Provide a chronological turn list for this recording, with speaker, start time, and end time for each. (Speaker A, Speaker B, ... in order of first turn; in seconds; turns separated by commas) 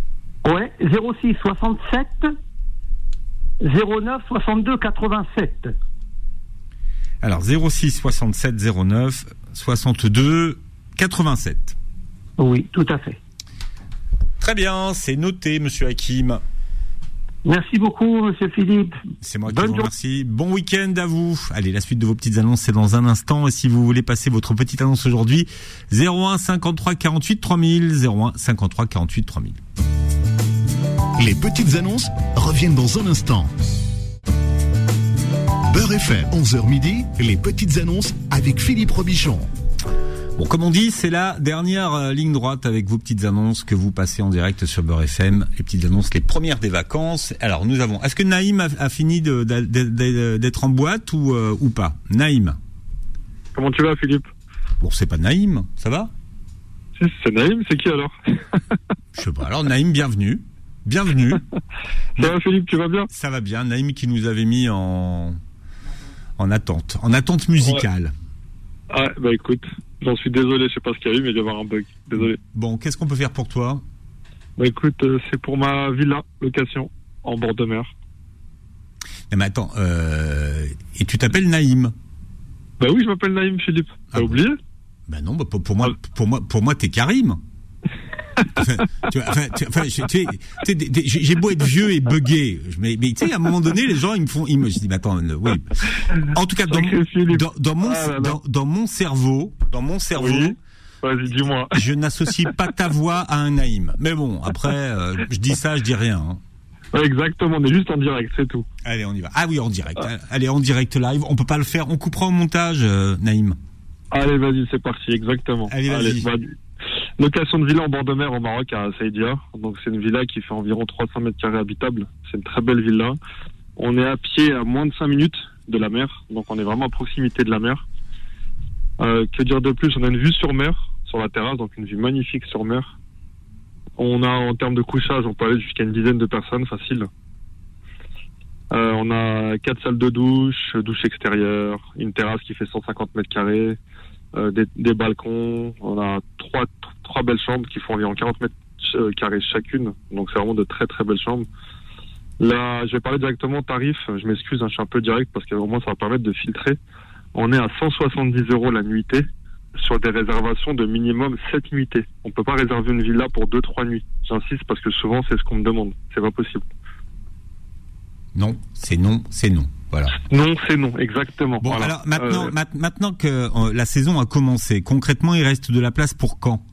Speaker A: 0.4-2.3, Speaker A: 3.6-5.7, Speaker B: 7.2-11.7, Speaker A: 12.4-13.2, Speaker B: 14.4-16.4, Speaker A: 17.4-19.9, Speaker B: 19.2-29.6, Speaker C: 31.2-33.5, Speaker C: 35.7-39.5, Speaker B: 40.4-52.6, Speaker D: 53.5-54.3, Speaker B: 54.8-56.1, Speaker D: 57.0-58.1, Speaker B: 59.1-61.4, Speaker D: 62.2-63.1, Speaker B: 63.1-65.4, Speaker B: 66.4-68.1, Speaker D: 68.9-72.4, Speaker B: 72.2-73.8, Speaker D: 74.6-77.9, Speaker B: 79.3-81.9, Speaker D: 82.8-84.6, Speaker B: 84.1-84.4, Speaker B: 85.1-87.4, Speaker B: 88.6-95.8, Speaker B: 96.3-100.5, Speaker D: 96.7-98.4, Speaker D: 100.2-101.8, Speaker B: 101.7-106.4, Speaker D: 106.9-108.7, Speaker B: 108.8-113.6, Speaker D: 114.1-116.5, Speaker B: 115.7-116.3, Speaker D: 117.2-123.2, Speaker D: 123.8-127.8, Speaker D: 129.0-132.9, Speaker D: 134.0-137.1, Speaker D: 138.7-143.8, Speaker D: 144.3-151.4, Speaker D: 152.4-156.8, Speaker D: 157.3-159.2, Speaker D: 159.8-166.6, Speaker B: 168.3-170.2, Speaker D: 170.2-172.5, Speaker B: 171.6-176.6